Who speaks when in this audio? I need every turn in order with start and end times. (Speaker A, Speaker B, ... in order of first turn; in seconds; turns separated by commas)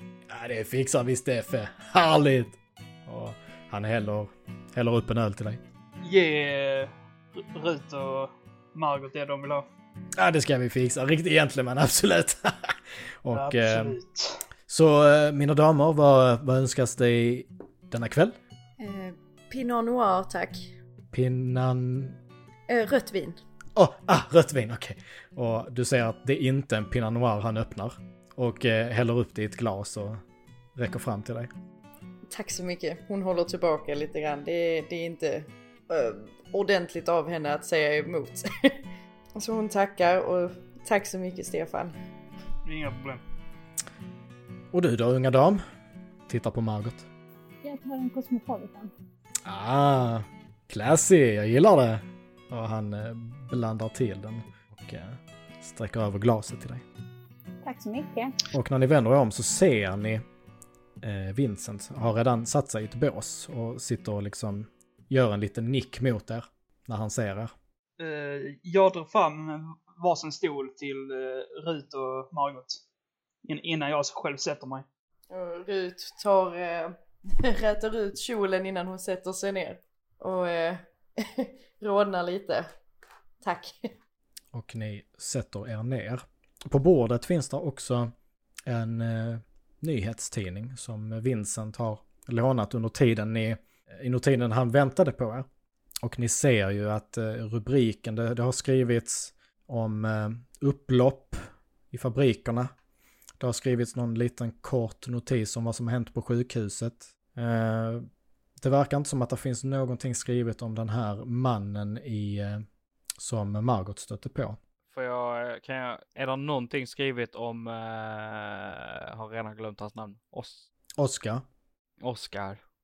Speaker A: 0.3-5.6, Speaker B: 6.0-9.7, Speaker A: 10.2-14.0, Speaker B: 13.3-14.4, Speaker A: 14.7-18.4, Speaker C: 18.8-20.7, Speaker A: 21.1-22.2, Speaker C: 22.7-23.4, Speaker A: 23.8-30.2, Speaker A: 30.8-31.5, Speaker C: 32.3-42.0, Speaker B: 42.6-43.2, Speaker A: 44.7-45.6, Speaker A: 46.3-47.1, Speaker D: 47.6-48.9, Speaker A: 49.5-56.8, Speaker D: 57.6-58.4, Speaker A: 58.5-60.2, Speaker A: 61.0-67.5, Speaker B: 68.0-72.8, Speaker B: 73.5-74.9, Speaker C: 75.3-82.7, Speaker C: 83.4-83.9, Speaker A: 84.5-88.1, Speaker A: 88.7-95.5, Speaker A: 96.0-102.7, Speaker A: 103.4-108.1, Speaker A: 108.6-112.7, Speaker A: 113.2-114.6, Speaker E: 114.9-120.7, Speaker A: 121.0-121.4, Speaker E: 122.0-122.6